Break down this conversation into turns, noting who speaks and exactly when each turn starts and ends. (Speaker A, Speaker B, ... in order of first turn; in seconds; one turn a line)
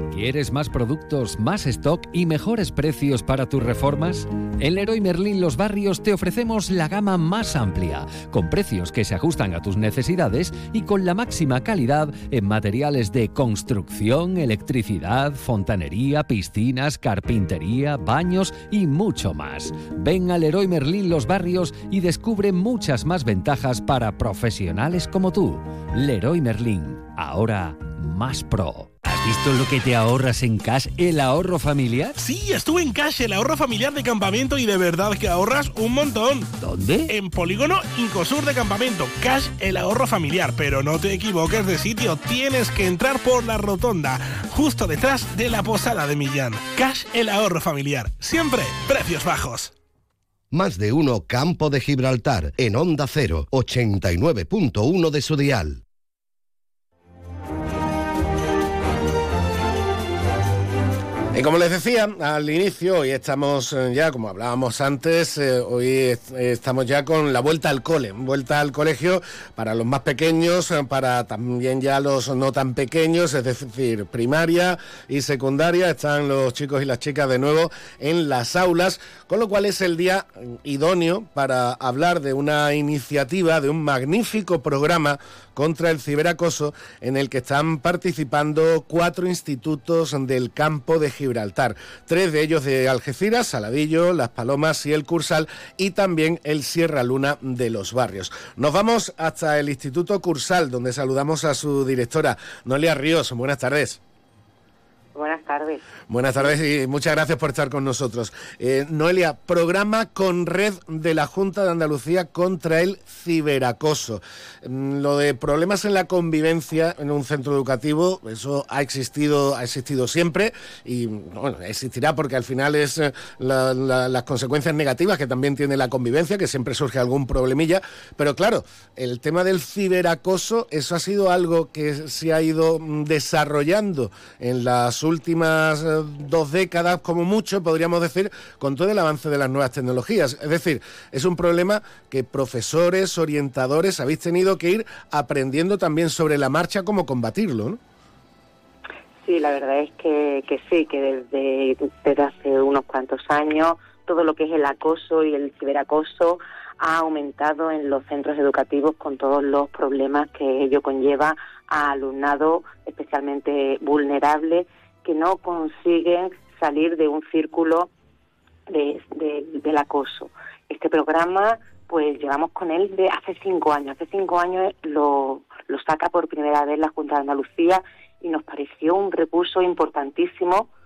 Speaker A: 0.1-32.2
Speaker B: 32.3-36.4
Speaker A: 36.6-37.1
Speaker B: 37.1-49.7
Speaker C: 50.5-55.8
Speaker D: 61.3-104.0
Speaker E: 105.2-105.8
Speaker D: 106.1-147.8
Speaker E: 149.2-167.9
Speaker E: 168.7-180.7